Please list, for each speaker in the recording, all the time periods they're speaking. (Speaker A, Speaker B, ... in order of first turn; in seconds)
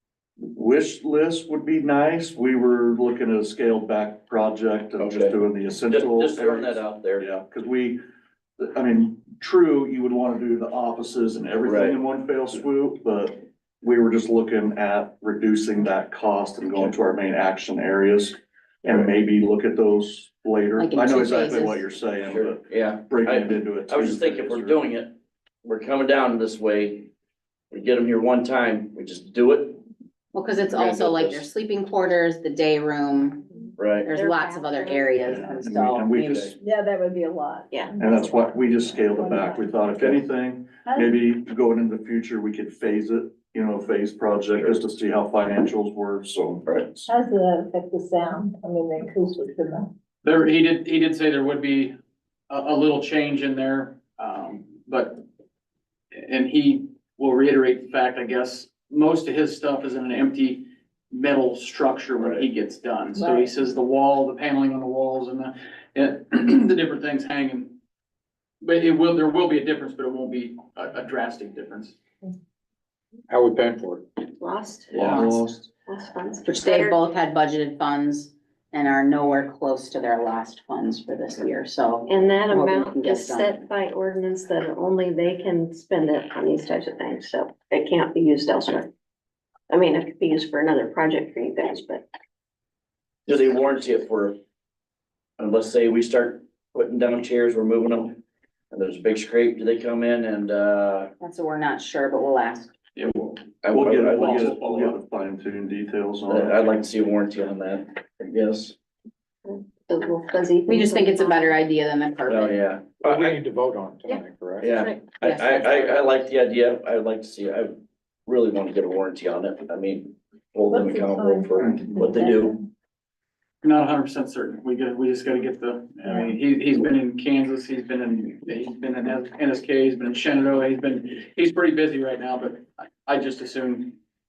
Speaker A: 0.4-8.0, 8.6-24.9, 35.2-36.6, 38.0-47.1, 74.9-75.7, 103.7-106.7
Speaker B: 5.0-5.3, 5.9-7.2, 11.6-12.0, 22.3-27.1, 27.7-29.8, 33.8-34.1, 93.3-94.4, 95.4-98.2, 98.7-101.1, 103.6-104.5, 106.3-108.7, 112.3-113.3, 114.6-117.7, 118.2-122.5
Speaker C: 20.8-21.8, 30.3-33.4, 34.0-36.5, 76.5-83.5, 101.2-102.7, 110.7-112.6, 115.2-116.2
Speaker D: 34.1-35.2, 74.3-75.3, 75.9-77.0, 82.1-88.9, 89.7-92.0, 109.5-111.4
Speaker E: 36.5-39.8, 40.9-41.1, 47.0-49.9, 63.1-63.5, 120.7-122.7
Speaker F: 50.2-51.9, 52.5-55.2, 56.1-67.7, 68.6-72.0, 103.0-103.4, 104.0-104.9, 123.6-133.9
Speaker G: 73.3-74.1, 112.9-114.7